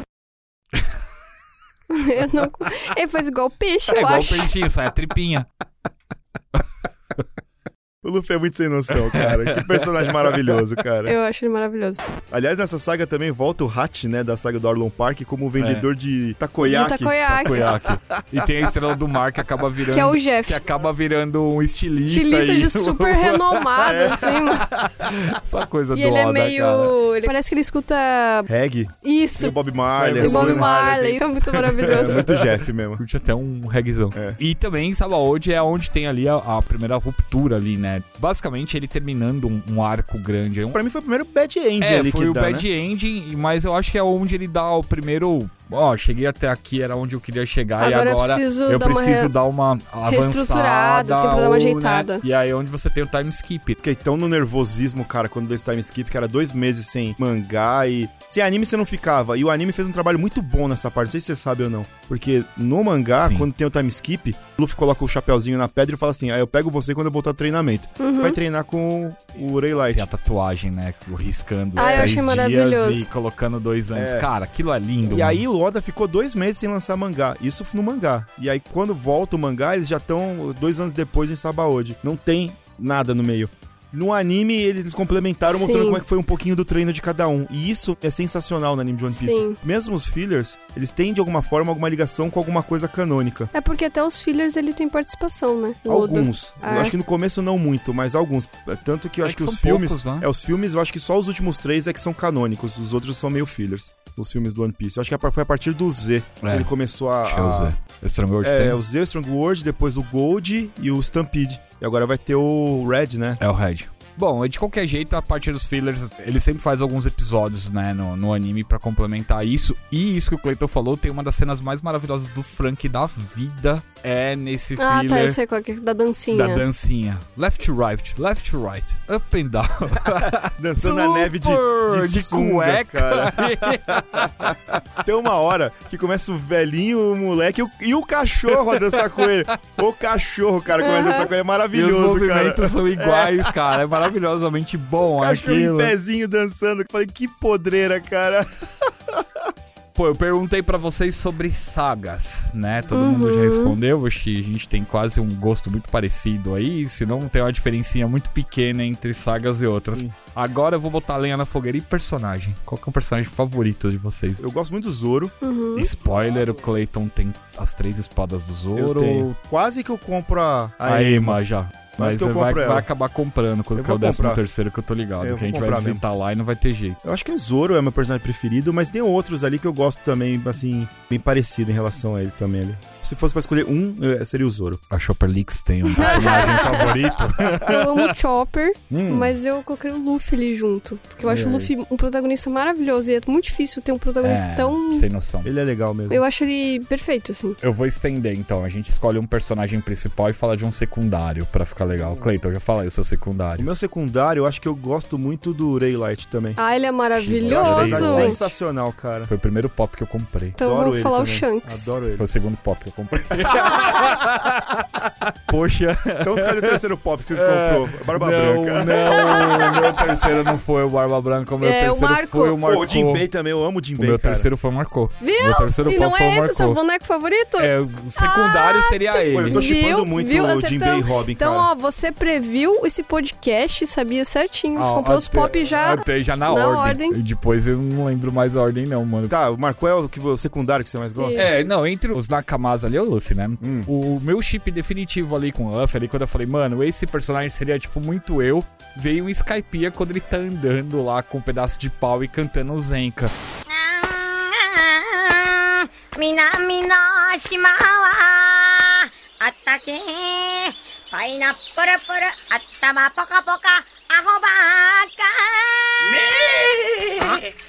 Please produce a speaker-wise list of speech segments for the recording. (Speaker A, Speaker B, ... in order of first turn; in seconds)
Speaker A: 1.9-4.5, 11.1-12.0, 16.6-17.7, 19.9-20.6, 22.1-24.7, 25.9-28.5, 29.0-29.6, 30.2-32.3, 47.8-49.3, 50.1-52.2, 68.0-68.4, 71.8-73.1, 85.5-86.0, 89.1-89.6, 93.5-97.0, 124.8-126.7, 140.8-141.3, 152.9-153.8, 165.4-165.9, 185.9-186.9, 187.6-195.1, 196.1-197.6, 206.6-208.4, 210.6-211.9, 219.1-219.8, 221.6-222.6, 225.2-237.2, 241.2-241.6
Speaker B: 3.9-5.5, 8.9-10.4, 15.6-15.9, 17.3-26.9, 30.0-30.7, 31.5-40.8, 41.8-53.8, 63.2-63.5, 69.9-75.4, 99.2-100.3, 106.4-106.7, 107.2-108.8, 113.4-125.4, 126.3-134.8, 138.5-139.3, 141.7-145.9, 149.9-164.4, 165.8-169.4, 170.8-177.0, 184.9-188.1, 194.2-195.5, 197.6-203.7, 207.2-208.5, 209.3-210.6, 212.2-216.8, 217.3-223.3, 224.0-226.8, 227.6-229.7, 234.8-239.3, 241.4-253.3
Speaker C: 8.0-11.2, 12.3-18.7, 23.8-25.1, 28.5-31.2, 31.9-33.0, 34.1-34.4, 40.7-42.7, 53.8-70.1, 71.8-72.2, 73.9-74.3, 75.0-93.5, 95.9-107.8, 108.4-113.4, 130.1-143.8, 145.2-149.5, 159.9-160.2, 164.4-165.3, 168.8-171.4, 172.0-172.9, 173.8-174.4, 175.2-176.0, 177.0-184.8, 186.0-186.9, 188.9-189.3, 191.2-191.7, 195.4-196.2, 203.6-206.6, 207.5-209.3, 210.6-212.3, 213.5-213.8, 216.2-219.8, 222.6-224.5, 229.3-231.7, 239.3-241.5, 243.6-243.9
Speaker D: 253.7-266.3